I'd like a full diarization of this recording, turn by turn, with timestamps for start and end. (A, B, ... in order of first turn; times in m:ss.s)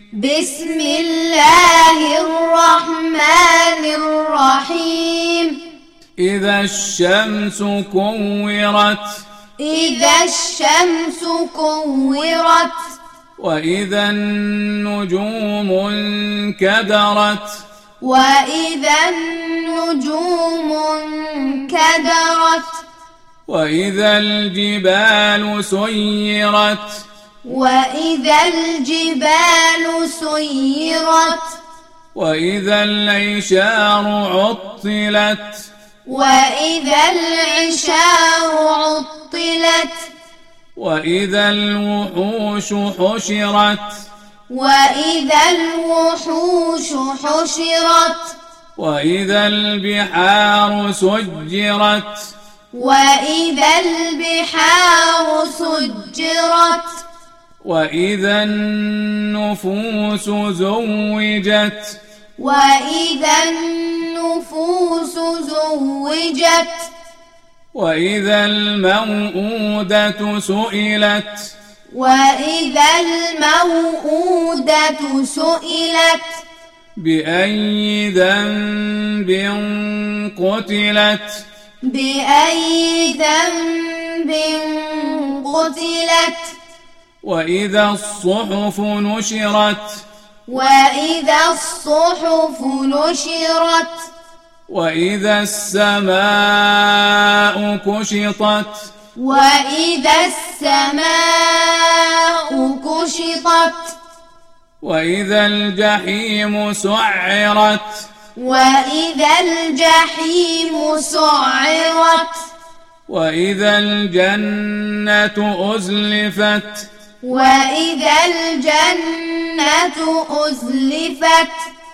0:00.1-0:05.6 A
0:06.2-0:09.2 B
0:09.6-0:12.9 A
0:13.4-0:17.6 B
0:18.0-0:22.8 A
0:23.5-0:27.0 B
0:27.4-0:31.6 A
0:32.1-0:35.7 B
0:36.1-0:40.1 A
0:40.8-0:44.0 B
0:44.5-0:48.4 A
0:48.8-0:52.3 B
0:52.7-0:57.0 A
0:57.6-1:02.0 B
1:02.4-1:06.9 A
1:07.7-1:11.5 B
1:11.9-1:16.4 A
1:17.0-1:21.5 B
1:21.9-1:26.6 A
1:27.2-1:30.0 B
1:30.5-1:34.1 A
1:34.7-1:38.9 B
1:39.2-1:44.0 A
1:44.8-1:48.1 B
1:48.4-1:52.4 A
1:53.1-1:56.9 B
1:57.2-2:01.7 A